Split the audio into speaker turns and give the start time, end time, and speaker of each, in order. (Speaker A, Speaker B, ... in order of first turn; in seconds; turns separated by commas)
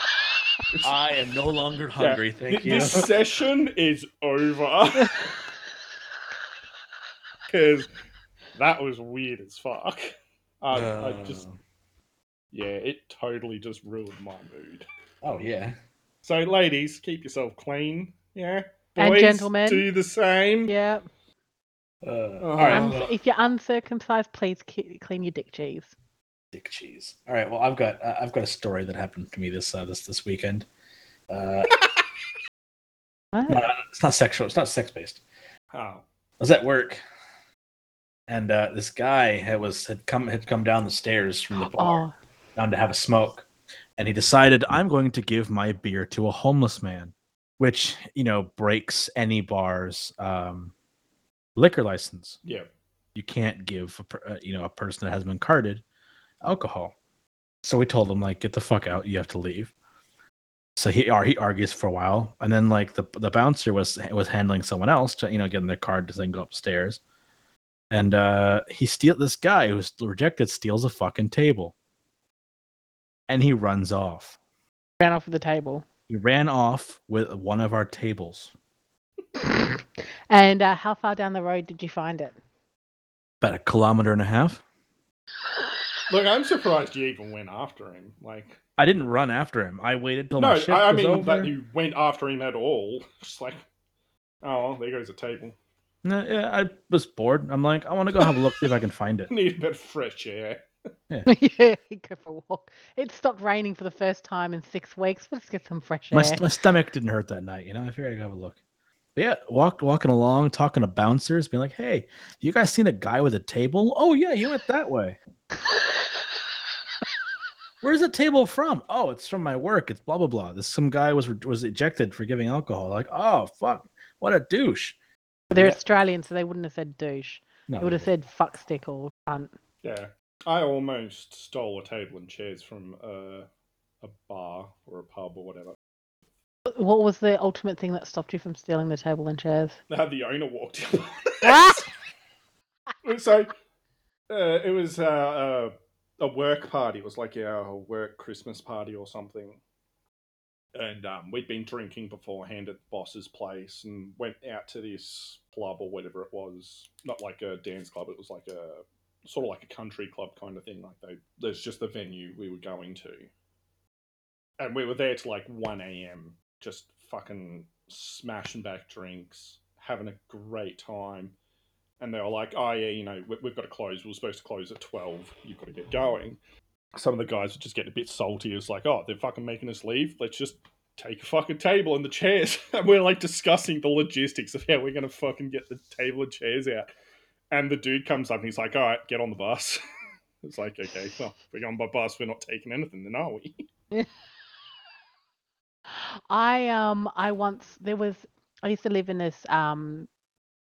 Speaker A: 0.8-3.1, Speaker B: 2.0-5.3, Speaker B: 7.5-7.9, Speaker B: 8.5-10.1, Speaker B: 10.6-11.4, Speaker A: 10.7-11.5, Speaker B: 12.5-14.8, Speaker A: 15.2-15.8, Speaker B: 16.2-20.7, Speaker C: 19.0-19.9, Speaker C: 20.7-21.0, Speaker A: 22.0-23.1, Speaker B: 22.4-23.0, Speaker C: 22.7-25.9, Speaker A: 26.5-30.7, Speaker A: 31.3-31.7, Speaker C: 33.3-33.6, Speaker A: 33.5-35.2, Speaker B: 35.7-36.0, Speaker A: 36.4-37.0, Speaker A: 38.3-42.0, Speaker C: 41.6-42.1, Speaker A: 42.5-50.7, Speaker A: 51.5-52.4, Speaker A: 53.1-55.8, Speaker A: 56.4-56.9, Speaker A: 57.6-59.7, Speaker A: 60.8-67.0, Speaker A: 67.9-71.7, Speaker A: 73.3-74.4, Speaker C: 75.0-75.8, Speaker A: 76.1-78.5, Speaker C: 79.4-82.3, Speaker A: 83.4-84.6, Speaker B: 86.1-88.6, Speaker A: 88.8-91.5, Speaker B: 90.4-93.6, Speaker B: 94.4-95.5, Speaker A: 96.0-99.3, Speaker B: 99.3-100.6, Speaker C: 101.2-106.4, Speaker A: 106.1-108.6, Speaker A: 109.2-115.2, Speaker A: 117.8-125.0, Speaker A: 125.5-125.8, Speaker C: 125.5-129.5, Speaker A: 127.7-128.1, Speaker B: 129.8-133.5, Speaker B: 134.0-135.7, Speaker C: 136.7-139.8, Speaker B: 139.9-141.8, Speaker C: 141.4-141.8, Speaker B: 143.0-143.5, Speaker B: 144.3-149.6, Speaker B: 150.7-163.3, Speaker B: 164.6-171.3, Speaker B: 172.0-176.4, Speaker B: 176.9-186.9, Speaker B: 187.5-189.8, Speaker B: 190.4-193.6, Speaker C: 195.9-200.1